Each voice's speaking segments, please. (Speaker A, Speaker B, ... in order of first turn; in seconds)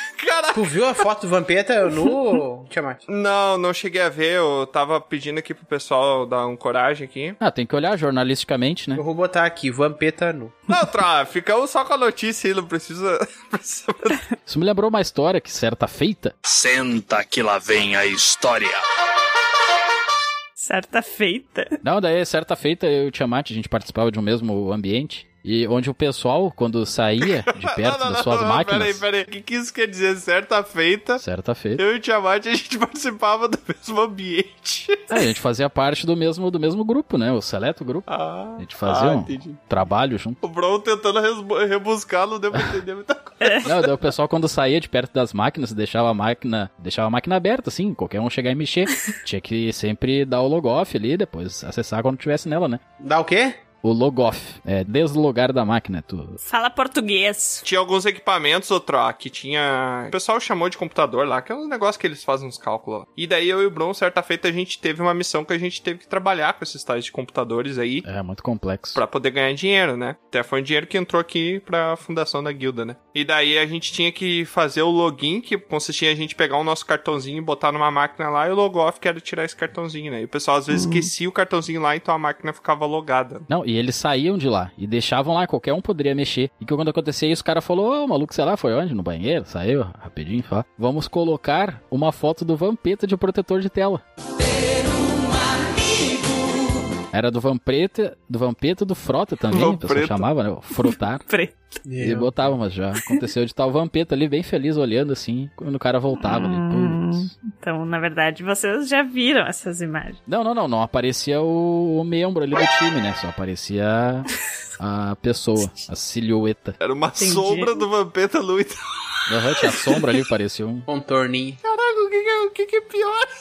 Speaker A: 0.2-0.8, 3.1-7.4, 10.7-14.2, 27.5-31.2, 31.8-35.0, 38.1-39.6, 40.4-43.6, 57.6-68.0, 68.9-83.5, 99.5-100.3, 116.8-118.7, 121.6-123.3
Speaker B: 0.5-3.0, 8.9-10.6, 53.0-53.6, 101.8-102.3, 120.9-121.6
Speaker C: 7.4-9.0, 14.4-16.3, 21.8-29.0, 31.2-31.8, 35.1-40.4, 43.6-52.8, 53.8-56.4, 68.0-69.0, 83.5-94.0, 97.1-101.2, 102.0-107.3, 110.3-114.3, 114.8-116.8, 119.3-120.8
Speaker D: 16.4-18.8
Speaker E: 20.6-21.8, 43.4-43.7, 56.4-57.6, 80.7-81.1, 101.3-101.8, 106.2-110.2, 117.2-117.8